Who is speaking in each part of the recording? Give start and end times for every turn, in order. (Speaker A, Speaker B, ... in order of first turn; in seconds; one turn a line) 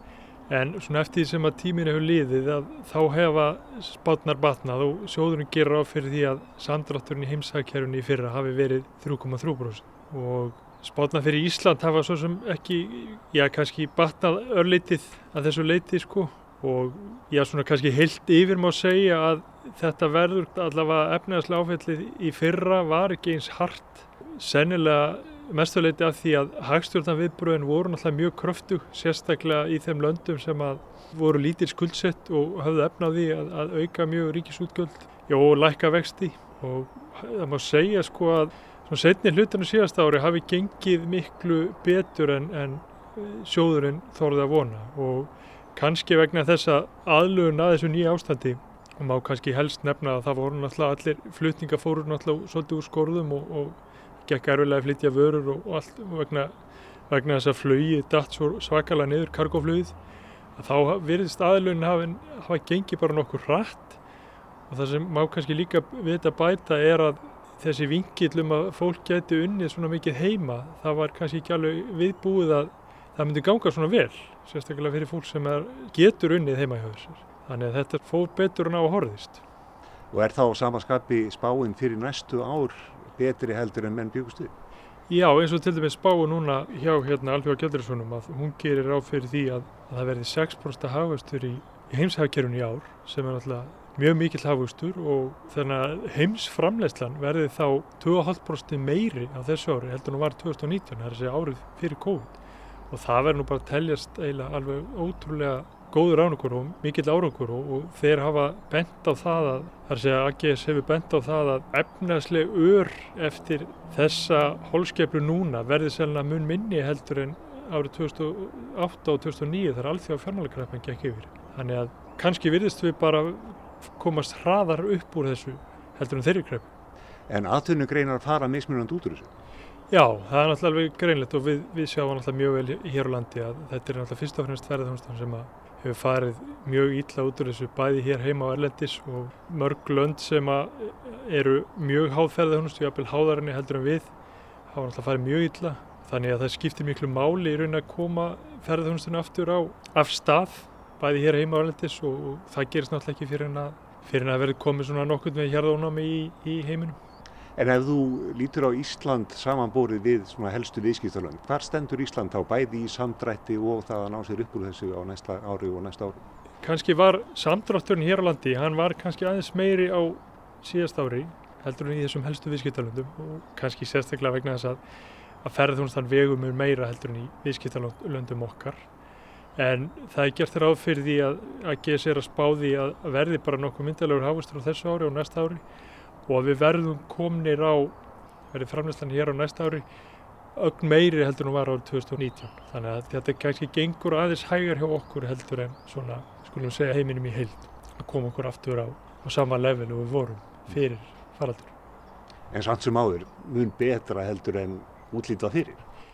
Speaker A: 0.5-56.5
Speaker A: 57.1-60.0
Speaker A: 60.5-64.0
Speaker A: 64.7-79.4
Speaker B: 80.1-84.5
Speaker A: 85.1-102.3
Speaker A: 102.9-126.7
Speaker B: 127.3-129.3
Speaker A: 129.9-144.1
Speaker A: 144.7-157.0
Speaker B: 157.6-166.2
Speaker A: 166.6-174.8
Speaker A: 175.4-178.8
Speaker A: 179.6-185.6
Speaker A: 186.3-187.9
Speaker A: 188.5-189.8
Speaker A: 190.5-201.7
Speaker B: 202.5-205.8